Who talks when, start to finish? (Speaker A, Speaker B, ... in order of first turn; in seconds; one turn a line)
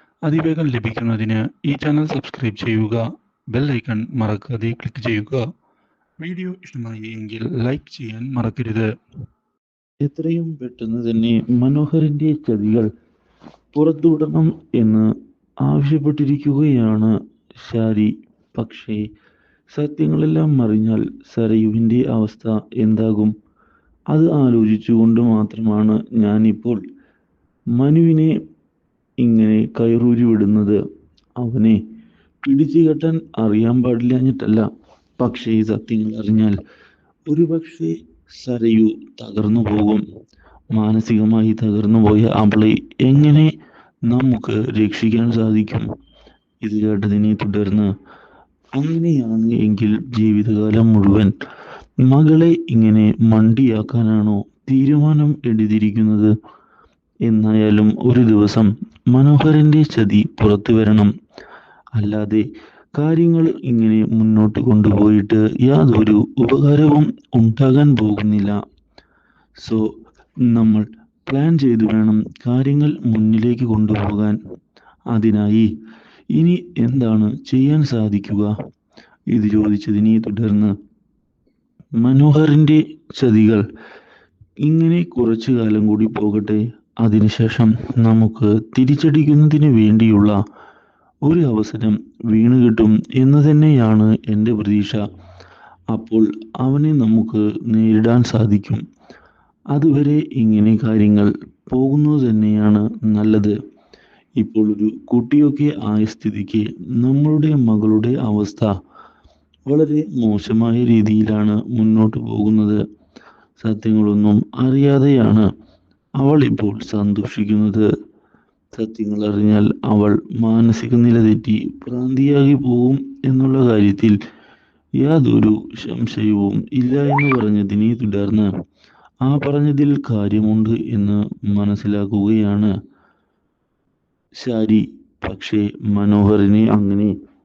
Speaker A: 0.3-1.2
Speaker B: 0.3-1.3
Speaker A: 1.7-2.9
Speaker B: 2.2-3.0
Speaker B: 3.5-5.4
Speaker A: 3.6-5.2
Speaker B: 6.2-8.8
Speaker A: 6.4-7.9
Speaker A: 8.5-8.8
Speaker A: 10.1-12.9
Speaker A: 13.7-15.0
Speaker A: 15.6-17.1
Speaker A: 17.7-19.0
Speaker A: 19.7-23.3
Speaker A: 24.1-26.8
Speaker A: 27.8-28.3
Speaker A: 29.2-30.8
Speaker A: 31.4-31.8
Speaker A: 32.4-34.7
Speaker A: 35.2-36.6
Speaker A: 37.3-40.0
Speaker A: 40.7-43.5
Speaker A: 44.1-45.9
Speaker A: 46.6-47.9
Speaker A: 48.8-51.3
Speaker A: 52.0-56.3
Speaker A: 57.3-61.1
Speaker A: 62.0-62.4
Speaker A: 63.0-68.6
Speaker A: 70.5-74.4
Speaker A: 75.1-75.7
Speaker A: 76.3-78.5
Speaker A: 79.3-80.7
Speaker A: 82.0-83.6
Speaker A: 84.7-90.4
Speaker A: 91.3-95.0
Speaker A: 95.9-98.8
Speaker A: 99.7-103.5
Speaker A: 104.4-108.7
Speaker A: 109.7-112.8
Speaker A: 113.6-115.5
Speaker A: 116.2-117.9
Speaker A: 118.8-124.2
Speaker A: 125.0-128.5
Speaker A: 129.2-132.7
Speaker A: 134.4-137.1